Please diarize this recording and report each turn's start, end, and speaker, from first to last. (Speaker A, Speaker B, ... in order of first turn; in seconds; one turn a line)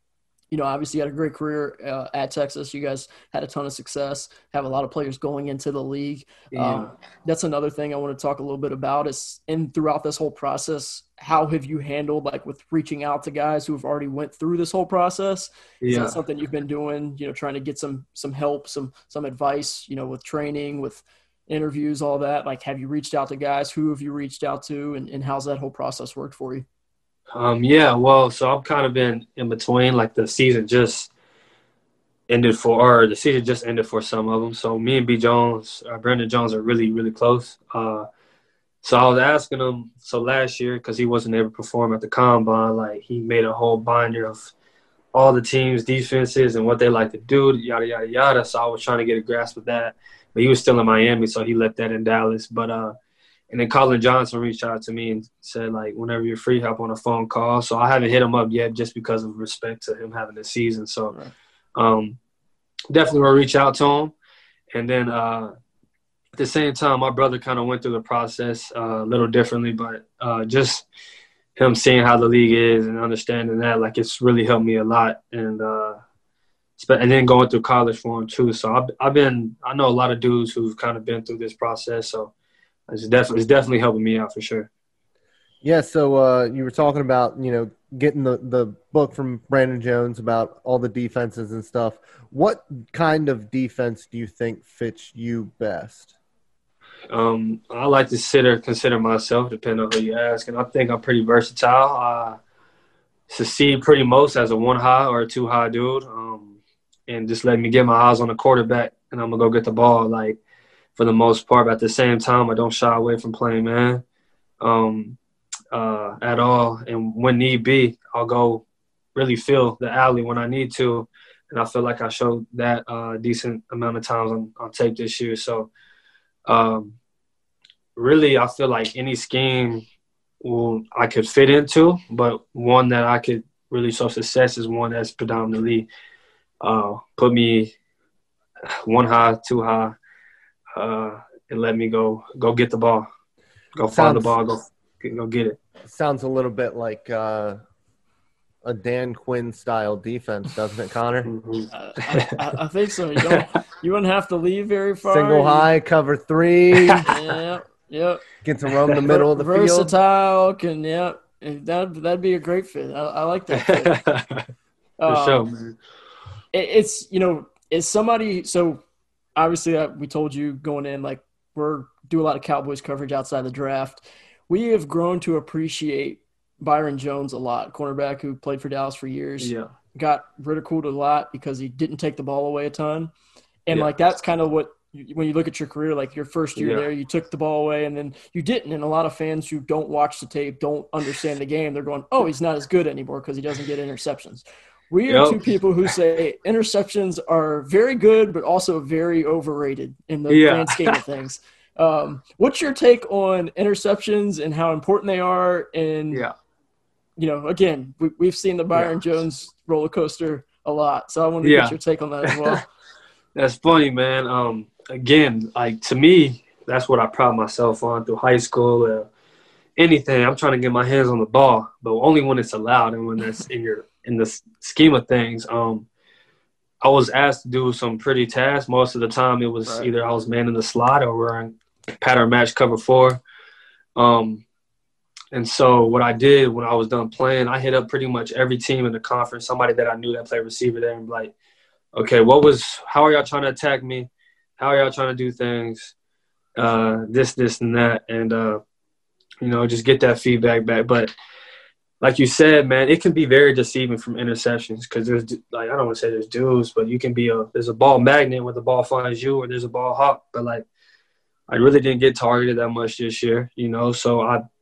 Speaker A: 0.5-26.7
Speaker B: 6.5-6.9
Speaker B: 15.8-16.2
Speaker B: 27.3-31.1
Speaker B: 32.3-38.1
Speaker B: 38.8-44.5
Speaker B: 45.1-53.0
Speaker B: 53.5-61.1
Speaker B: 61.8-62.2
Speaker B: 62.9-64.1
Speaker B: 64.7-65.5
Speaker B: 66.3-70.9
Speaker B: 71.6-76.0
Speaker B: 76.8-82.3
Speaker B: 82.9-84.7
Speaker C: 85.6-96.1
Speaker B: 97.1-102.4
Speaker B: 103.3-106.6
Speaker B: 107.1-110.4
Speaker B: 111.0-114.0
Speaker B: 114.6-115.2
Speaker B: 115.7-118.6
Speaker B: 119.2-125.7
Speaker B: 126.5-127.0
Speaker B: 128.0-129.8
Speaker B: 130.4-135.9
Speaker B: 136.6-137.7
Speaker B: 138.7-140.0
Speaker B: 140.8-143.1
Speaker B: 143.8-145.6
Speaker C: 143.9-144.3
Speaker C: 145.9-147.6
Speaker C: 148.6-151.3
Speaker B: 151.2-152.4
Speaker A: 151.7-155.7
Speaker C: 155.1-157.1
Speaker B: 156.7-157.0
Speaker A: 157.1-158.2
Speaker C: 158.4-159.9
Speaker A: 159.0-163.9
Speaker B: 163.5-164.5
Speaker A: 165.0-165.4
Speaker B: 165.1-165.8
Speaker A: 166.5-168.8
Speaker A: 169.4-183.1
Speaker B: 179.4-179.7
Speaker A: 183.7-206.2
Speaker B: 186.6-186.9
Speaker B: 195.1-195.4
Speaker B: 200.3-201.0
Speaker A: 207.2-212.6
Speaker B: 211.4-212.6
Speaker B: 213.3-219.1
Speaker B: 219.8-225.9
Speaker B: 226.8-233.2
Speaker B: 234.0-234.4
Speaker B: 235.3-241.3
Speaker B: 241.9-245.9
Speaker B: 246.6-248.6
Speaker B: 249.4-251.1
Speaker B: 252.0-260.6
Speaker B: 261.5-264.4